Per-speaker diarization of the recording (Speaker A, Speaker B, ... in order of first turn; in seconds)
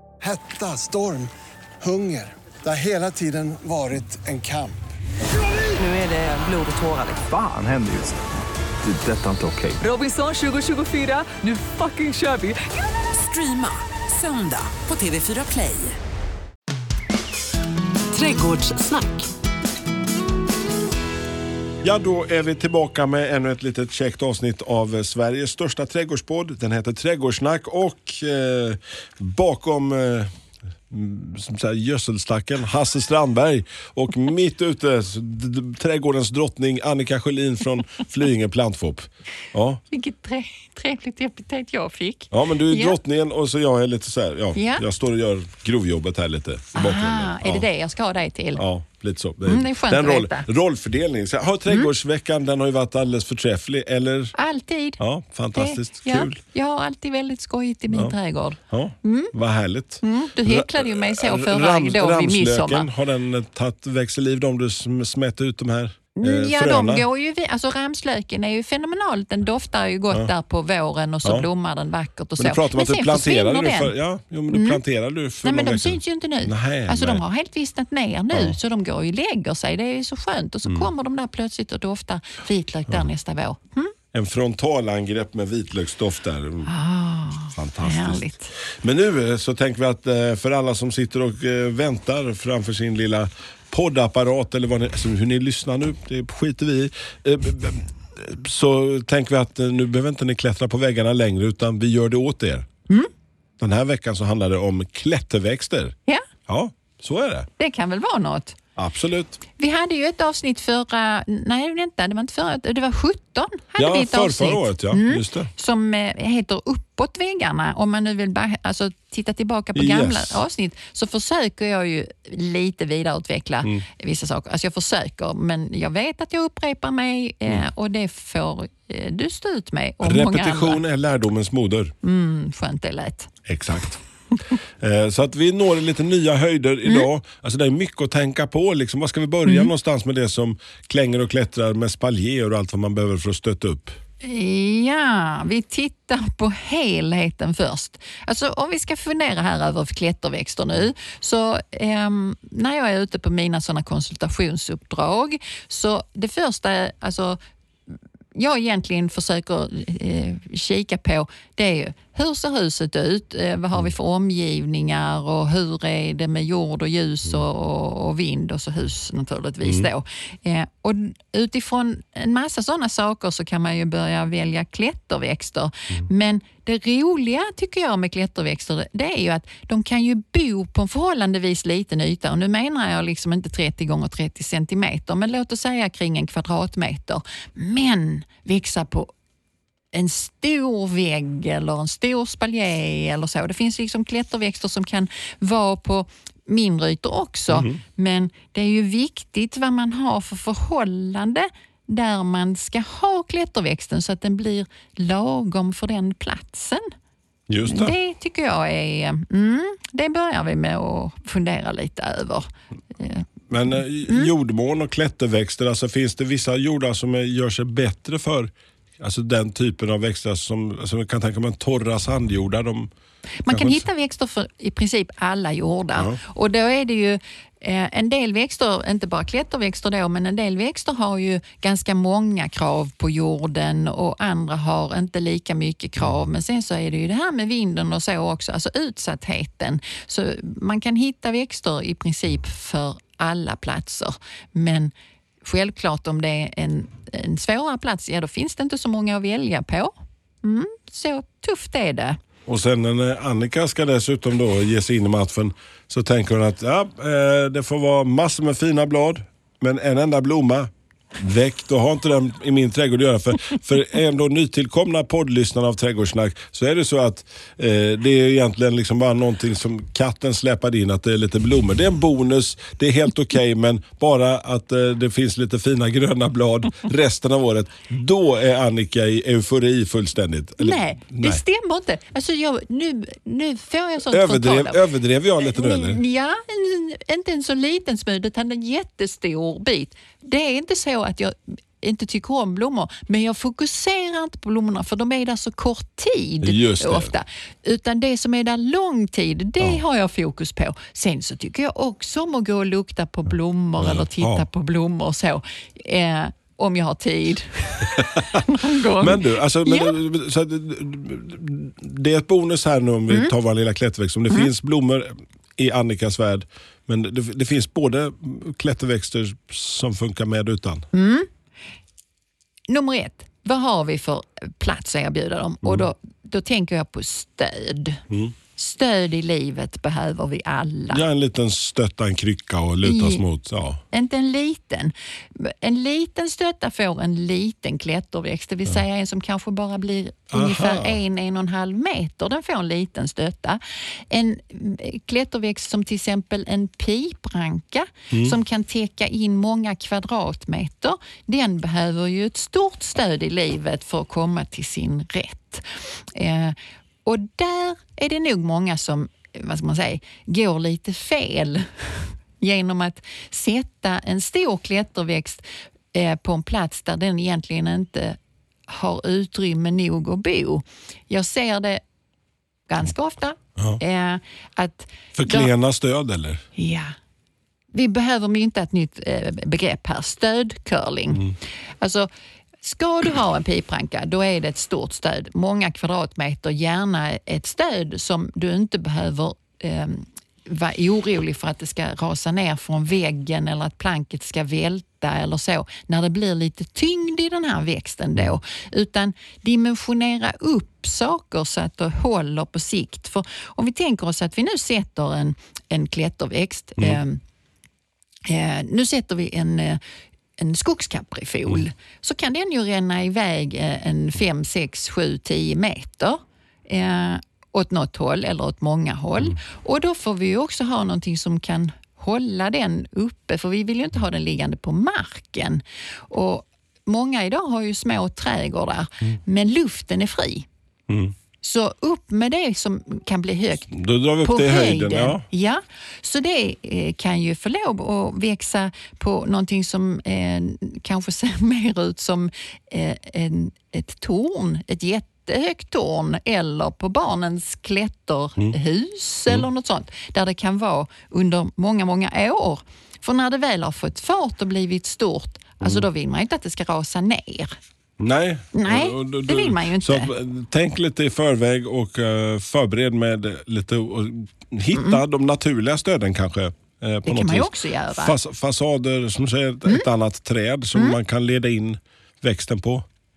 Speaker A: 0.2-1.3, 1.8-4.8
Speaker B: 5.7-7.3, 9.8-16.0, 18.1-19.3
Speaker C: 7.3-8.2, 8.8-9.8
Speaker D: 21.8-30.3, 30.9-39.8, 42.3-47.7, 48.6-54.3, 55.0-56.4, 58.7-67.1, 71.2-71.5, 72.4-77.2, 78.3-78.6, 80.7-80.9, 84.1-86.7, 87.5-102.7, 103.6-106.0, 106.5-107.5, 108.8-109.4, 113.8-115.5, 119.8-120.4, 130.0-131.9, 133.5-134.0, 134.8-144.0, 169.6-169.9, 197.5-197.8, 207.5-207.9, 213.5-222.9, 223.5-223.8, 225.9-226.2, 236.0-236.2, 252.5-281.4, 284.1-286.0, 296.4-297.1, 303.8-304.4, 308.0-308.4, 309.0-320.9, 330.9-333.8, 340.3-341.0, 348.1-348.4, 375.2-376.4, 430.9-431.1, 433.7-435.2, 458.0-472.9
Speaker E: 39.9-43.0, 44.5-44.8, 46.8-48.6, 49.5-50.5, 54.3-55.0, 55.5-59.3, 60.0-62.9, 66.2-73.9, 74.5-74.8, 75.4-83.9, 86.7-88.5, 107.6-108.6, 109.6-130.8, 132.0-133.3, 139.4-139.7, 144.2-157.4, 158.3-189.1, 189.9-206.9, 207.7-212.5, 213.0-213.3, 223.4-244.9, 245.4-252.2, 280.6-284.8, 285.4-309.9, 320.9-321.3, 322.7-328.0, 328.6-331.0, 332.8-333.2, 333.9-365.4, 365.9-368.2, 368.7-371.8, 372.7-375.5, 376.6-376.9, 377.7-382.1, 382.6-407.2, 408.3-409.8, 410.4-430.5, 431.4-457.6, 458.5-460.1, 464.7-465.0, 467.1-468.2